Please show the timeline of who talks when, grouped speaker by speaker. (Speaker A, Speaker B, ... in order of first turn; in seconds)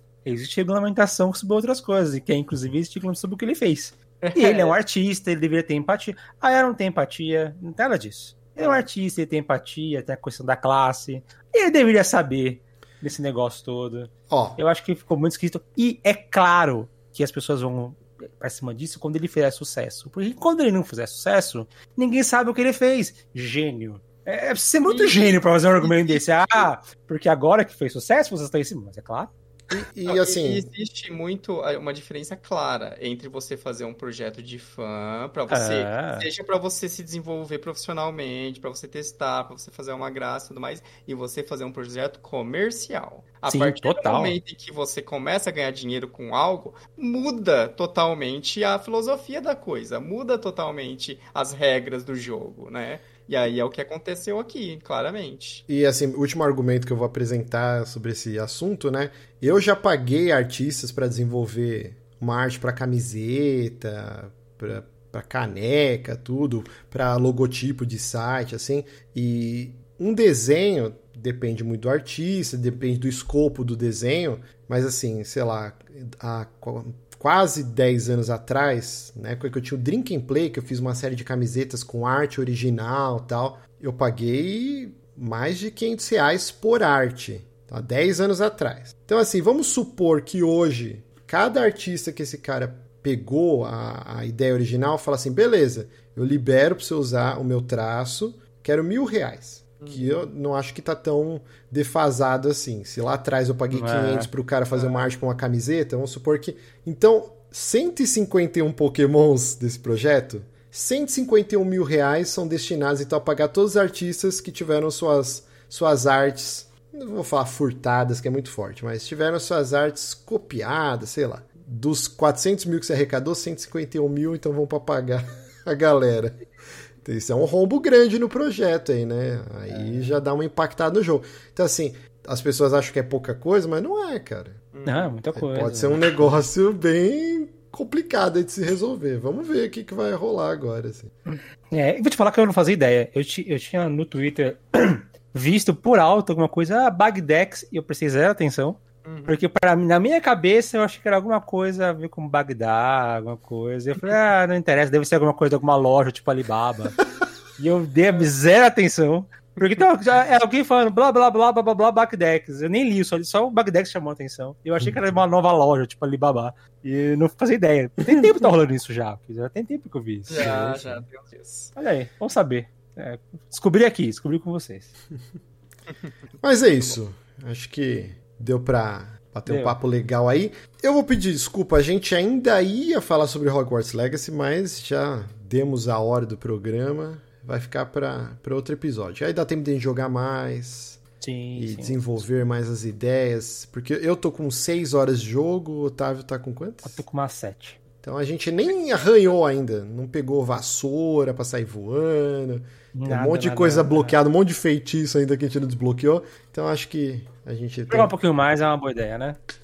Speaker A: 0.2-29.3, 35.5-36.3, 43.5-44.4, 103.7-104.3, 129.7-130.2, 134.8-136.5, 141.3-157.0, 157.6-170.7, 171.8-174.9, 179.4-179.8, 191.2-192.3, 196.8-197.8, 202.9-204.2, 207.9-209.4
Speaker B: 4.2-4.8, 8.6-8.9, 24.8-26.7, 30.1-55.6, 99.8-100.2, 104.7-105.2, 134.7-135.2, 149.0-149.4, 159.6-159.9, 170.3-171.7
Speaker C: 14.3-14.6, 29.7-30.6, 55.7-126.4, 127.0-134.6, 135.3-141.1, 170.4-171.0, 176.4-191.0, 191.5-197.0, 198.0-208.1